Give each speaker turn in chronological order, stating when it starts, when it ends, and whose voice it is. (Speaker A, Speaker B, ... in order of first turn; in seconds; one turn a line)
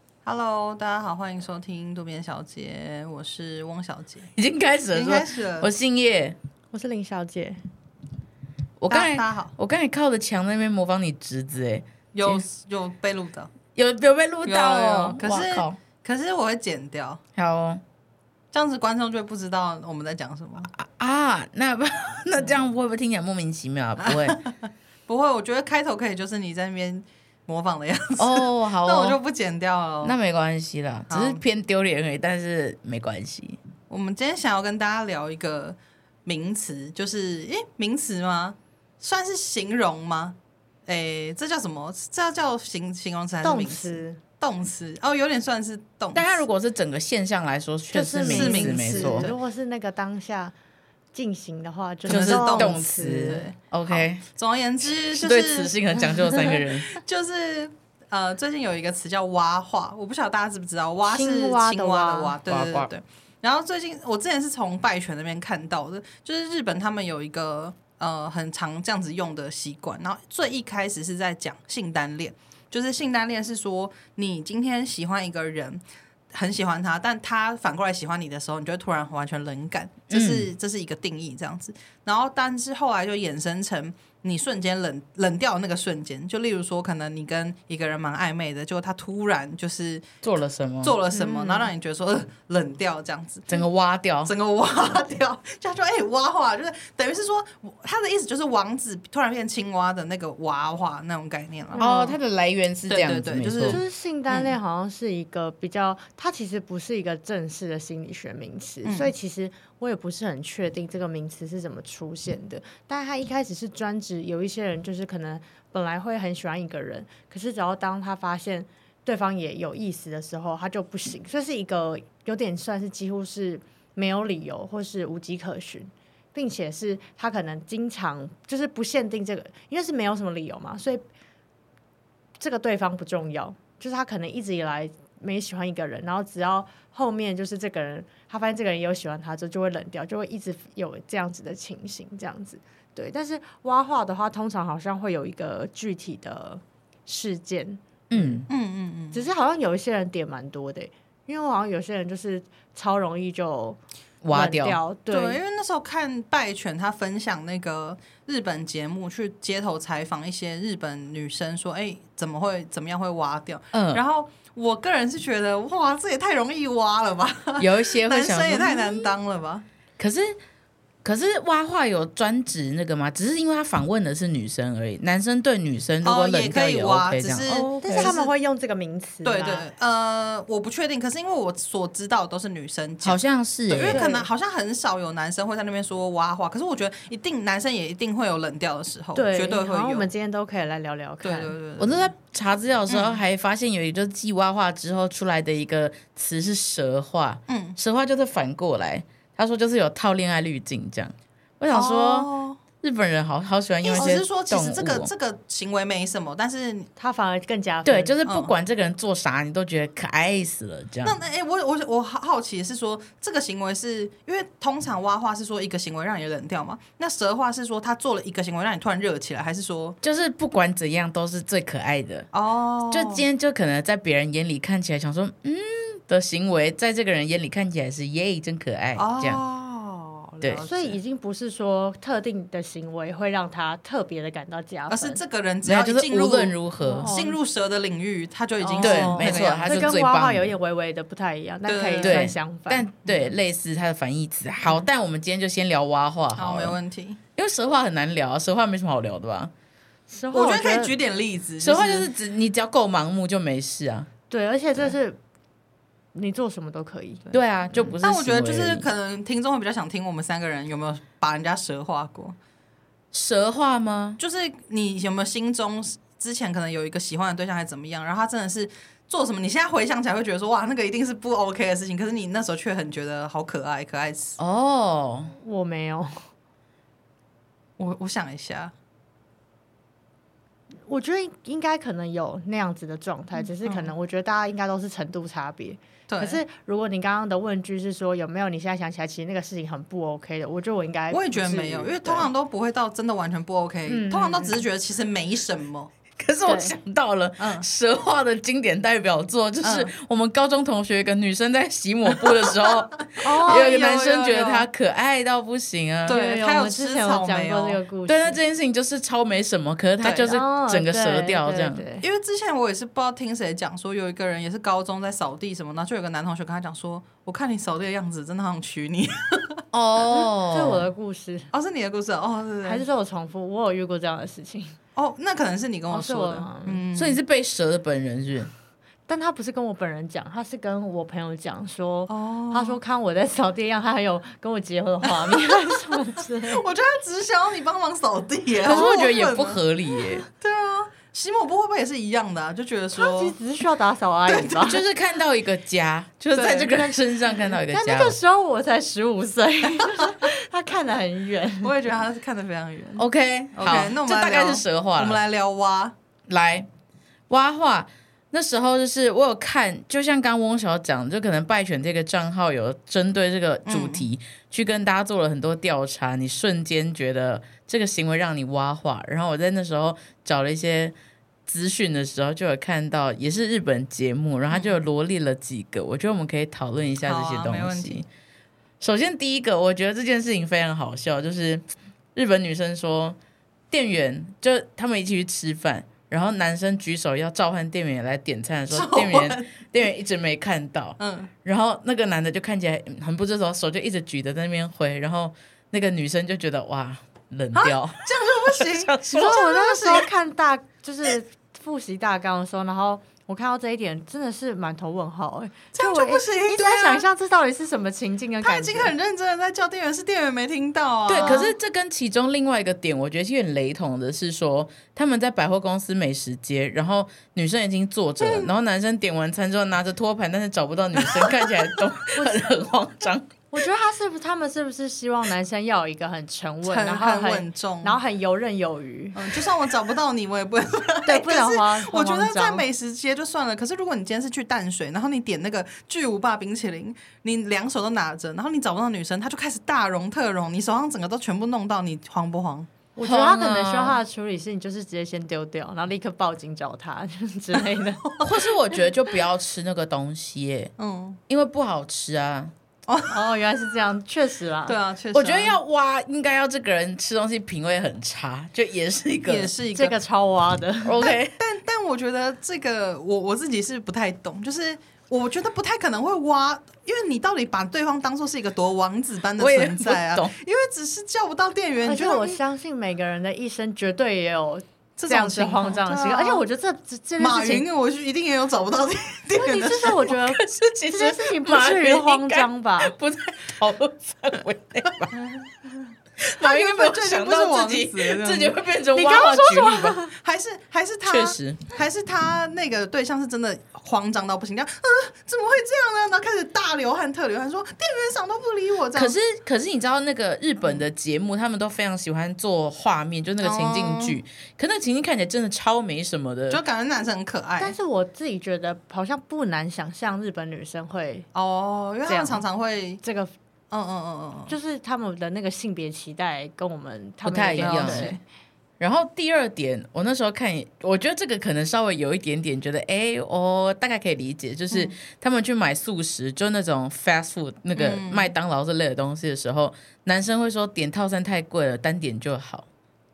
Speaker A: 0.2-4.3
Speaker B: 4.3-6.3
Speaker A: 4.9-5.7
Speaker C: 6.7-7.6
Speaker B: 8.8-12.4
Speaker A: 8.9-9.5
Speaker A: 12.1-13.5
Speaker B: 13.7-15.8
Speaker A: 14.4-17.2
Speaker B: 17.4-17.8
Speaker A: 18.5-20.7
Speaker B: 20.7-24.4
Speaker A: 24.0-24.5
Speaker A: 25.1-30.1
Speaker B: 28.2-29.2
Speaker B: 30.0-33.6
Speaker A: 31.1-31.4
Speaker A: 33.9-40.4
Speaker A: 40.9-46.4
Speaker C: 43.4-44.2
Speaker B: 46.1-49.3
Speaker C: 47.9-50.5
Speaker A: 48.2-49.4
Speaker C: 51.1-53.5
Speaker A: 52.0-75.8
Speaker B: 52.1-54.2
Speaker B: 54.9-57.0
Speaker C: 61.1-62.4
Speaker B: 62.5-62.9
Speaker A: 76.3-90.1
Speaker B: 80.1-80.5
Speaker B: 90.2-91.0
Speaker A: 90.8-93.6
Speaker C: 91.1-91.7
Speaker B: 93.5-94.3
Speaker A: 94.2-101.9
Speaker C: 101.7-102.2
Speaker B: 101.8-103.8
Speaker A: 102.8-104.5
Speaker C: 103.7-131.0
Speaker A: 108.8-109.1
Speaker C: 132.4-148.5
Speaker B: 148.1-148.5
Speaker A: 148.5-149.2
Speaker C: 149.1-155.4
Speaker B: 154.2-154.8
Speaker A: 155.1-169.6
Speaker B: 163.7-164.0
Speaker B: 167.6-169.1
Speaker B: 170.0-170.4
Speaker B: 171.0-178.1
Speaker A: 176.0-178.3
Speaker C: 177.8-179.7
Speaker A: 179.2-190.1
Speaker B: 183.0-184.0
Speaker C: 183.9-184.3
Speaker C: 189.1-191.5
Speaker A: 191.2-192.1
Speaker B: 191.8-202.3
Speaker A: 192.9-193.2
Speaker A: 197.5-197.8
Speaker A: 201.7-202.6
Speaker B: 202.8-205.1
Speaker A: 203.8-206.9
Speaker C: 207.0-208.2
Speaker B: 207.8-211.2
Speaker A: 208.2-208.5
Speaker A: 211.0-220.0
Speaker B: 220.0-222.3
Speaker A: 222.3-223.2
Speaker B: 222.9-229.4
Speaker A: 229.0-231.0
Speaker C: 230.6-235.2
Speaker A: 234.9-239.9
Speaker B: 235.6-237.1
Speaker C: 236.8-237.4
Speaker C: 238.6-242.9
Speaker B: 238.8-240.5
Speaker A: 241.7-242.3
Speaker B: 242.0-246.8
Speaker A: 246.3-247.2
Speaker B: 247.4-249.5
Speaker C: 250.1-250.9
Speaker A: 250.3-252.1
Speaker B: 251.6-254.1
Speaker C: 254.3-255.2
Speaker C: 256.1-257.3
Speaker B: 257.3-258.9
Speaker A: 258.0-262.4
Speaker B: 263.1-264.2
Speaker A: 264.2-274.4
Speaker B: 274.4-275.3
Speaker C: 275.4-276.2
Speaker A: 277.8-278.7
Speaker C: 280.9-292.3
Speaker A: 283.6-283.9
Speaker A: 286.1-286.4
Speaker A: 291.1-295.9
Speaker C: 293.9-294.6
Speaker B: 296.2-306.2
Speaker C: 296.4-296.7
Speaker A: 297.4-297.7
Speaker A: 299.6-299.9
Speaker A: 302.2-304.7
Speaker C: 303.2-303.7
Speaker A: 306.1-307.8
Speaker C: 306.1-308.4
Speaker B: 308.1-311.8
Speaker A: 310.0-310.4
Speaker C: 310.2-312.1
Speaker A: 312.0-319.6
Speaker B: 319.7-320.9
Speaker C: 320.1-321.5
Speaker A: 321.5-322.8
Speaker C: 322.6-324.8
Speaker A: 324.9-327.2
Speaker C: 325.9-326.8
Speaker B: 326.9-328.5
Speaker C: 329.1-336.6
Speaker A: 332.1-332.8
Speaker A: 335.2-335.8
Speaker A: 336.4-339.6
Speaker B: 338.6-340.3
Speaker A: 340.3-343.4
Speaker C: 342.9-344.8
Speaker A: 344.3-344.6
Speaker B: 344.6-348.2
Speaker A: 346.3-346.7
Speaker C: 347.7-351.7
Speaker A: 351.6-355.9
Speaker B: 353.0-355.2
Speaker B: 356.3-356.7
Speaker B: 357.3-370.9
Speaker A: 363.6-364.1
Speaker B: 371.5-378.1
Speaker A: 374.5-374.8
Speaker A: 377.0-378.1
Speaker B: 378.8-381.6
Speaker B: 382.1-383.2
Speaker B: 383.7-399.4
Speaker A: 388.7-389.7
Speaker A: 391.0-391.3
Speaker A: 397.5-400.1
Speaker C: 399.1-408.9
Speaker A: 405.7-407.0
Speaker A: 408.4-411.5
Speaker B: 411.1-423.3
Speaker C: 411.2-411.4
Speaker A: 418.2-418.5
Speaker A: 421.0-421.6
Speaker C: 422.1-422.5
Speaker C: 423.5-429.5
Speaker A: 426.6-428.0
Speaker A: 429.1-442.7
Speaker C: 431.1-432.6
Speaker C: 442.9-448.0
Speaker B: 443.0-444.0
Speaker B: 448.2-450.7
Speaker A: 450.8-451.2
Speaker B: 451.3-452.5
Speaker A: 452.9-453.2
Speaker C: 453.1-454.8
Speaker A: 454.6-455.6
Speaker B: 455.1-459.5
Speaker A: 459.2-459.9
Speaker C: 459.7-461.0
Speaker B: 460.8-461.4
Speaker A: 461.0-472.4
Speaker B: 469.4-470.3
Speaker C: 471.8-477.6
Speaker A: 475.0-476.4
Speaker A: 477.2-480.1
Speaker C: 479.3-482.9
Speaker B: 480.1-485.1
Speaker A: 485.1-485.5
Speaker B: 486.2-490.0
Speaker A: 486.4-499.1
Speaker C: 488.9-490.1
Speaker B: 491.0-491.6
Speaker B: 498.9-506.6
Speaker A: 503.4-504.2
Speaker A: 506.5-507.8
Speaker C: 507.6-511.3
Speaker A: 511.3-513.0
Speaker C: 512.1-512.4
Speaker C: 513.0-513.3
Speaker A: 513.7-514.5
Speaker C: 514.5-518.2
Speaker B: 517.2-518.1
Speaker A: 517.6-518.2
Speaker B: 518.8-532.7
Speaker A: 527.8-528.3